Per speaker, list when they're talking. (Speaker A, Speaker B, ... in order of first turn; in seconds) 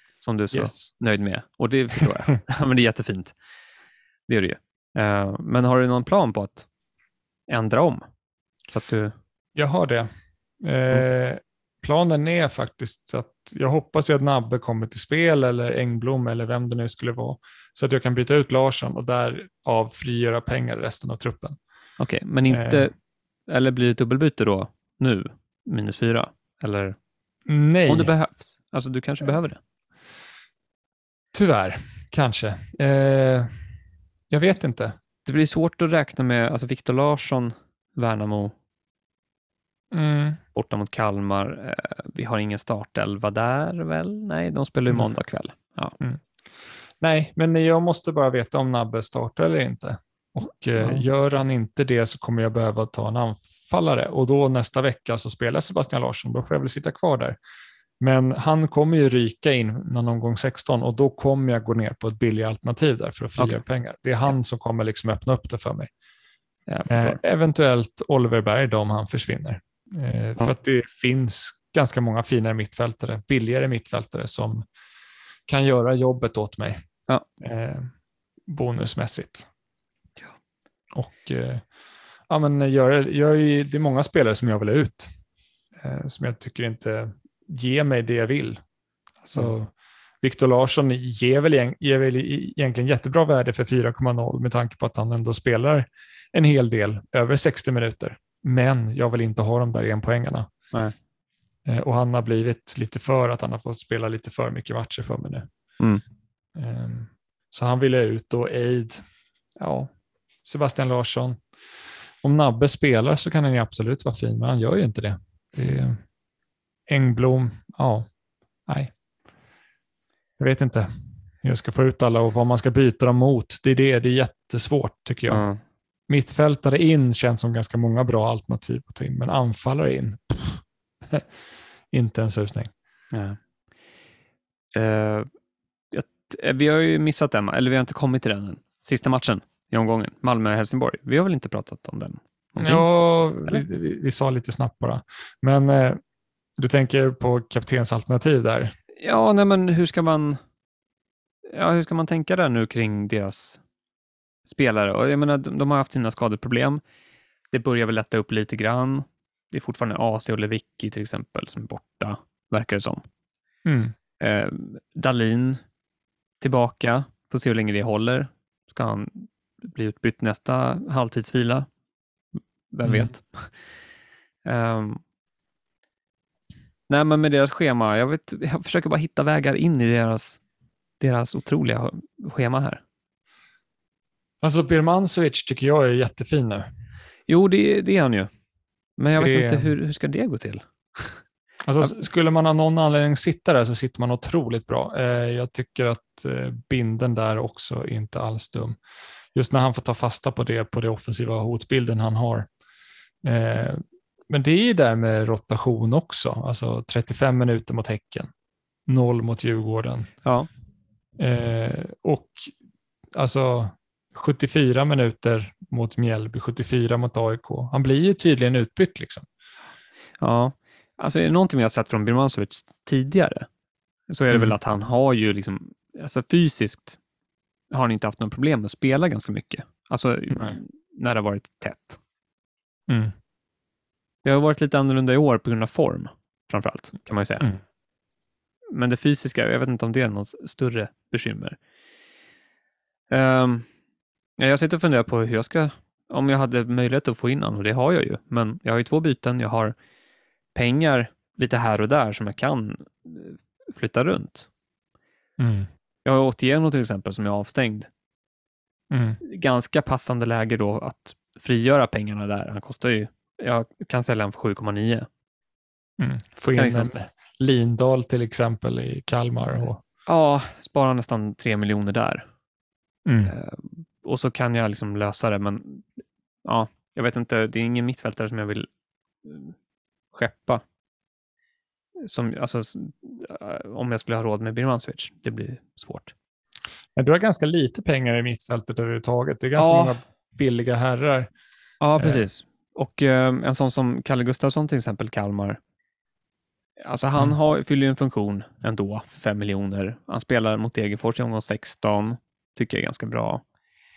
Speaker A: 0.2-3.3, 4.3-6.7, 7.5-8.0, 8.7-9.1, 22.0-22.9, 23.5-26.9, 27.9-29.6, 35.2-38.5, 40.5-46.0, 50.8-51.0, 63.4-63.6, 66.7-67.2, 125.3-125.6, 133.1-133.4, 134.7-135.3, 135.9-142.8, 149.0-150.4, 151.5-153.6, 154.5-156.8, 157.5-163.0, 164.2-165.6, 166.4-171.7, 172.7-173.5, 174.4-175.0, 176.9-180.4, 181.0-182.8, 187.3-188.3, 189.0-191.2, 210.2-210.5, 220.2-223.5, 224.1-227.0, 227.7-232.0, 234.2-237.5, 238.7-241.6, 243.1-243.7, 244.4-249.7, 250.5-254.5, 256.0-257.9, 259.2-265.1, 266.5-266.9, 270.1-272.2, 273.2-278.7, 279.2-279.5, 280.1-280.6, 282.0-286.1, 289.6-290.0, 291.8-295.6, 296.8-303.4
Speaker B: 0.5-0.9, 9.5-10.1, 10.6-21.6, 22.5-22.9, 27.5-28.1, 31.3-33.6, 34.3-34.9, 39.9-40.4, 47.0-57.4, 58.0-65.9, 66.8-74.6, 75.5-76.8, 77.4-77.9, 78.5-79.5, 80.9-81.6, 82.3-85.1, 85.8-88.6, 89.2-89.7, 90.2-100.5, 101.7-105.5, 106.5-109.0, 109.6-109.9, 110.4-111.4, 112.2-116.0, 116.9-118.0, 118.7-118.9, 120.4-120.9, 121.4-125.4, 126.1-131.3, 131.9-132.7, 142.6-146.0, 146.6-148.7, 163.6-163.9, 172.8-173.1, 184.4-186.6, 189.2-189.7, 191.7-198.8, 199.3-202.5, 203.2-208.3, 208.9-210.1, 211.2-212.5, 213.1-219.2, 232.9-233.1, 255.4-255.7, 258.9-259.2, 266.0-269.8, 273.0-273.3, 286.9-291.3, 292.0-292.2